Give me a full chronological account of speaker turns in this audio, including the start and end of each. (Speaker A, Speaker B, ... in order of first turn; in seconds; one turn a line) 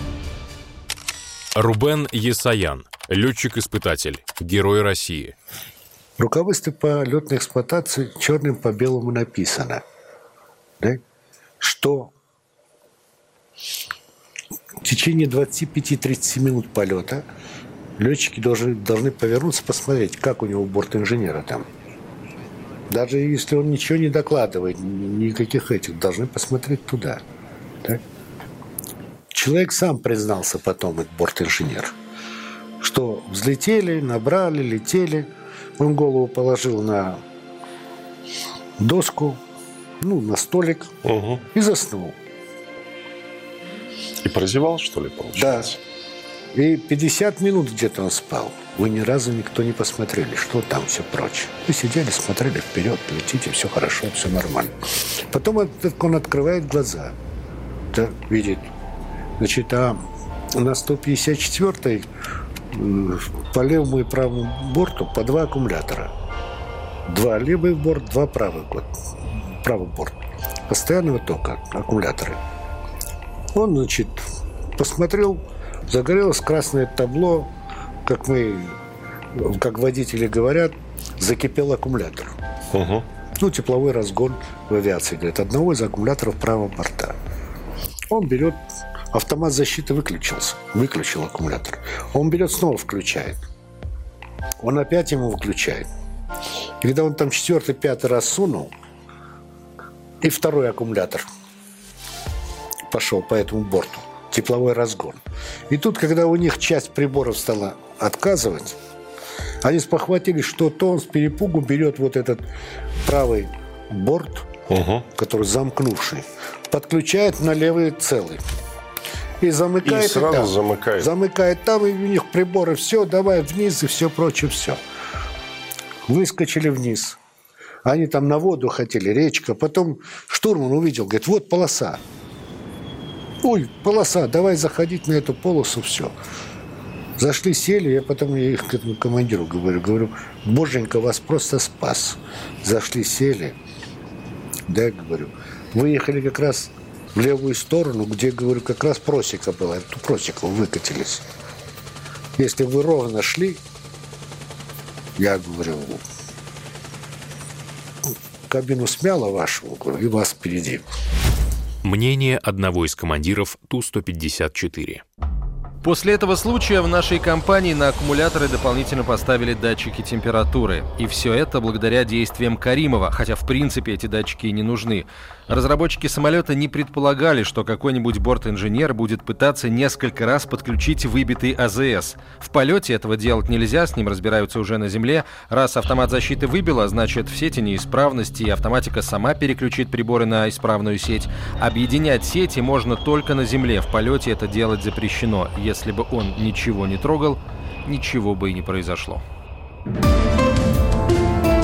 Speaker A: 1.6-5.3
Speaker B: 6.2-9.8
Speaker B: 11.6-12.1
Speaker B: 14.8-17.2
Speaker B: 18.0-21.6
Speaker B: 22.9-27.2
Speaker B: 29.3-31.9
Speaker B: 32.8-37.2
Speaker B: 38.8-39.4
Speaker B: 40.0-41.0
Speaker C: 41.0-41.4
Speaker B: 41.5-42.1
Speaker C: 44.2-45.7
Speaker B: 45.3-45.7
Speaker B: 46.5-54.7
Speaker B: 55.3-57.1
Speaker B: 57.9-58.7
Speaker B: 59.4-60.0
Speaker B: 60.5-62.1
Speaker B: 62.7-66.1
Speaker B: 67.1-68.9
Speaker B: 69.6-70.1
Speaker B: 70.7-72.4
Speaker B: 73.5-74.2
Speaker B: 74.8-77.5
Speaker B: 78.0-78.8
Speaker B: 79.3-82.3
Speaker C: 82.7-83.0
Speaker B: 83.4-87.2
Speaker B: 88.1-93.4
Speaker B: 94.6-95.9
Speaker B: 96.8-98.7
Speaker B: 100.2-101.2
Speaker B: 102.9-108.8
Speaker B: 109.6-112.4
Speaker B: 113.0-114.5
Speaker C: 114.7-115.0
Speaker B: 115.1-118.4
Speaker B: 119.4-124.8
Speaker C: 119.8-121.1
Speaker B: 126.1-127.2
Speaker B: 127.8-132.0
Speaker B: 133.4-136.1
Speaker B: 137.2-143.6
Speaker B: 144.7-151.2
Speaker B: 152.4-153.6
Speaker B: 155.2-156.0
Speaker B: 158.5-160.8
Speaker A: 161.8-165.0
Speaker D: 165.8-199.2